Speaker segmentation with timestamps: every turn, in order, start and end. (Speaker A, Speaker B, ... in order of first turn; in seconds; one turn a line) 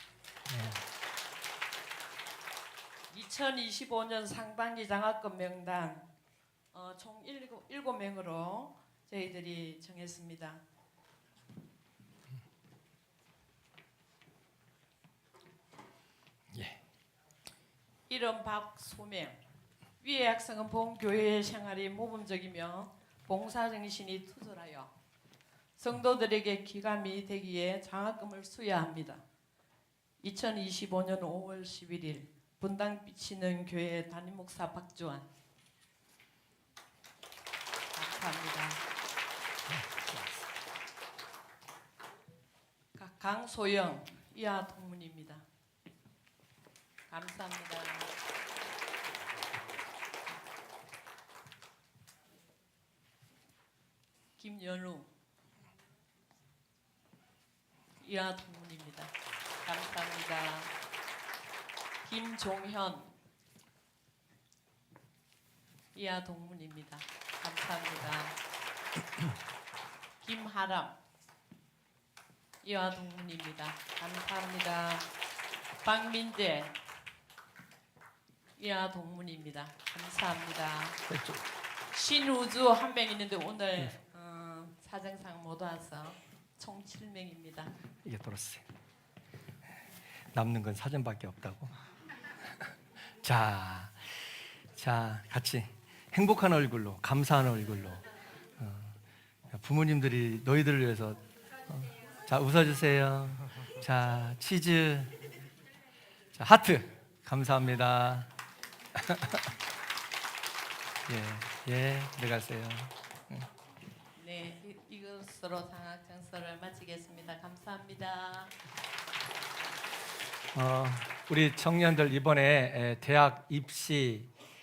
Speaker A: 0.5-0.8
Speaker B: 3.1-6.1
Speaker B: 6.7-10.6
Speaker A: 16.5-16.8
Speaker B: 18.1-19.4
Speaker B: 20.0-24.9
Speaker B: 25.8-29.2
Speaker B: 30.2-35.3
Speaker B: 37.9-38.8
Speaker A: 39.7-40.5
Speaker B: 42.9-45.5
Speaker B: 47.1-48.1
Speaker B: 54.4-55.1
Speaker B: 58.0-60.7
Speaker B: 62.0-63.1
Speaker B: 65.9-68.4
Speaker B: 70.2-70.9
Speaker B: 72.6-75.1
Speaker B: 75.8-76.8
Speaker B: 78.6-81.0
Speaker A: 81.1-81.5
Speaker B: 81.9-87.7
Speaker A: 88.0-88.6
Speaker A: 90.3-91.8
Speaker A: 93.2-98.0
Speaker A: 98.6-99.0
Speaker A: 99.5-105.2
Speaker A: 106.3-108.3
Speaker A: 108.9-109.4
Speaker A: 111.1-113.5
Speaker B: 114.2-118.6
Speaker A: 120.5-124.3